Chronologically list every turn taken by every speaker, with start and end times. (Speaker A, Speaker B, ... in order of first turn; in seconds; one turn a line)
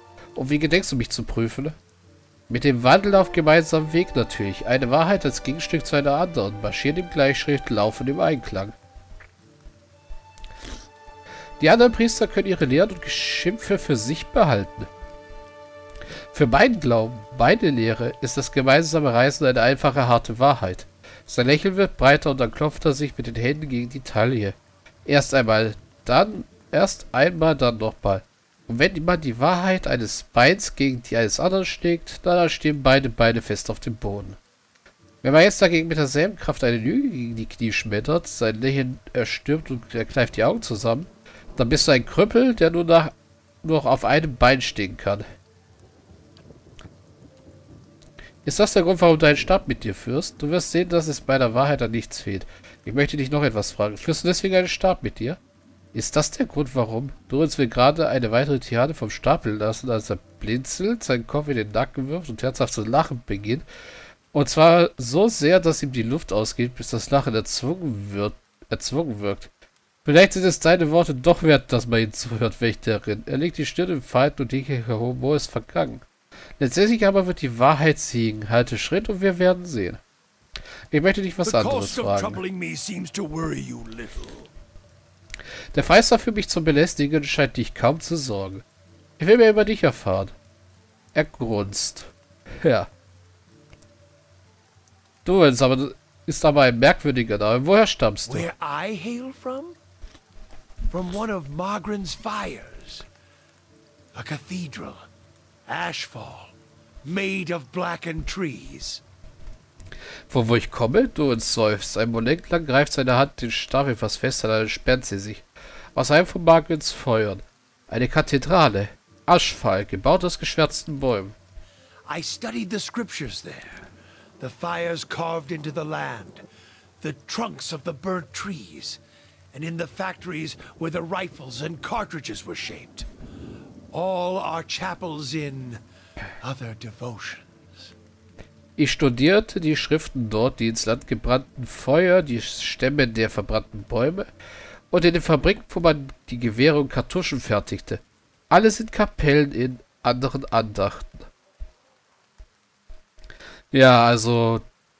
Speaker A: 0.3-1.8
Speaker A: 2.5-8.7
Speaker A: 11.6-14.9
Speaker A: 16.3-34.4
Speaker A: 35.2-45.2
Speaker A: 48.4-55.4
Speaker A: 55.9-63.6
Speaker A: 64.3-69.5
Speaker A: 70.0-76.0
Speaker A: 76.6-80.0
Speaker A: 80.9-82.4
Speaker B: 81.4-84.5
Speaker A: 85.7-88.6
Speaker A: 89.2-90.3
Speaker A: 91.1-92.9
Speaker A: 95.2-98.5
Speaker B: 98.3-99.8
Speaker B: 100.9-103.1
Speaker B: 104.1-105.0
Speaker B: 105.7-109.0
Speaker A: 110.3-121.3
Speaker B: 122.0-123.9
Speaker B: 124.4-126.4
Speaker B: 127.0-129.0
Speaker B: 129.5-133.1
Speaker B: 133.9-135.8
Speaker B: 136.4-137.9
Speaker A: 138.8-144.3
Speaker A: 144.9-151.3
Speaker A: 153.7-154.6